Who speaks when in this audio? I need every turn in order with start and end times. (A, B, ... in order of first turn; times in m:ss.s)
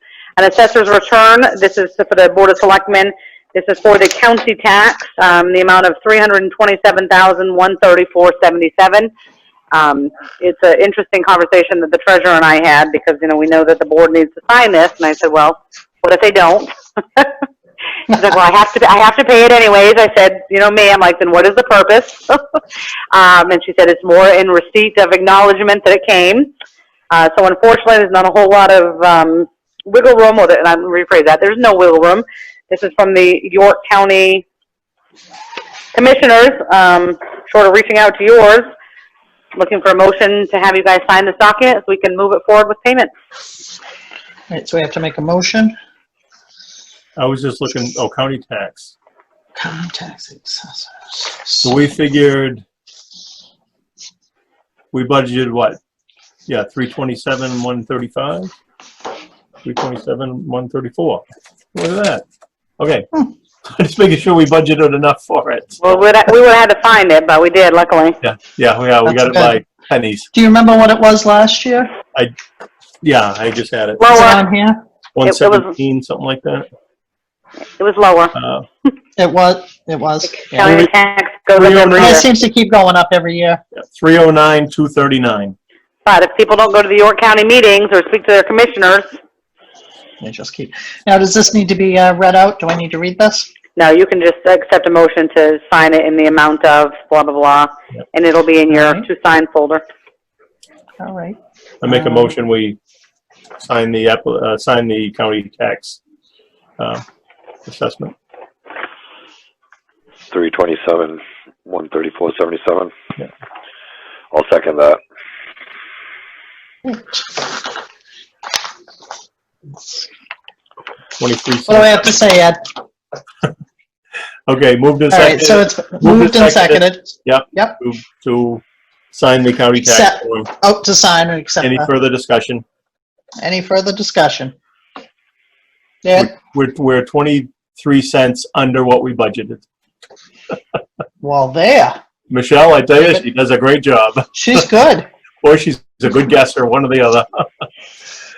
0:00.4-0:09.1 A
0:09.7-0:17.3 A
0:18.1-0:22.4 A
0:23.1-0:26.5 A
0:27.1-0:34.4 A
0:35.9-0:38.7 A
0:39.6-0:43.1 A
0:44.5-0:45.7 B
0:47.2-0:48.9 C
0:49.6-0:51.8 B
0:51.6-0:52.6 C
0:54.9-0:55.8 C
0:56.5-0:58.5 C
0:59.6-1:01.2 C
1:01.7-1:02.2 C
1:02.8-1:06.0 C
1:05.8-1:08.2 A
1:08.2-1:10.3 C
1:09.1-1:09.6 B
1:10.3-1:11.9 B
1:13.0-1:14.1 C
1:14.0-1:14.4 A
1:14.1-1:14.8 B
1:15.2-1:16.7 C
1:15.2-1:15.7 A
1:17.8-1:18.4 A
1:18.4-1:18.7 C
1:19.2-1:20.9 B
1:20.3-1:22.3 A
1:21.6-1:22.2 C
1:22.0-1:23.6 B
1:23.8-1:25.6 C
1:26.0-1:29.1 A
1:30.2-1:33.5 B
1:33.8-1:39.8 A
1:38.7-1:39.1 B
1:41.0-1:42.4 B
1:41.8-1:42.8 C
1:43.6-1:46.0 C
1:46.8-1:47.0 C
1:47.7-1:48.1 C
1:50.3-1:52.9 D
1:54.3-1:55.0 D
1:56.9-1:57.2 B
2:01.2-2:01.9 C
2:01.7-2:02.6 B
2:04.5-2:10.5 C
2:05.1-2:07.8 B
2:09.8-2:11.9 B
2:11.6-2:12.6 C
2:13.4-2:14.6 B
2:16.0-2:16.3 B
2:16.2-2:19.6 C
2:21.2-2:22.0 B
2:22.3-2:24.6 C
2:23.0-2:23.2 B
2:24.3-2:25.1 B
2:25.4-2:27.7 C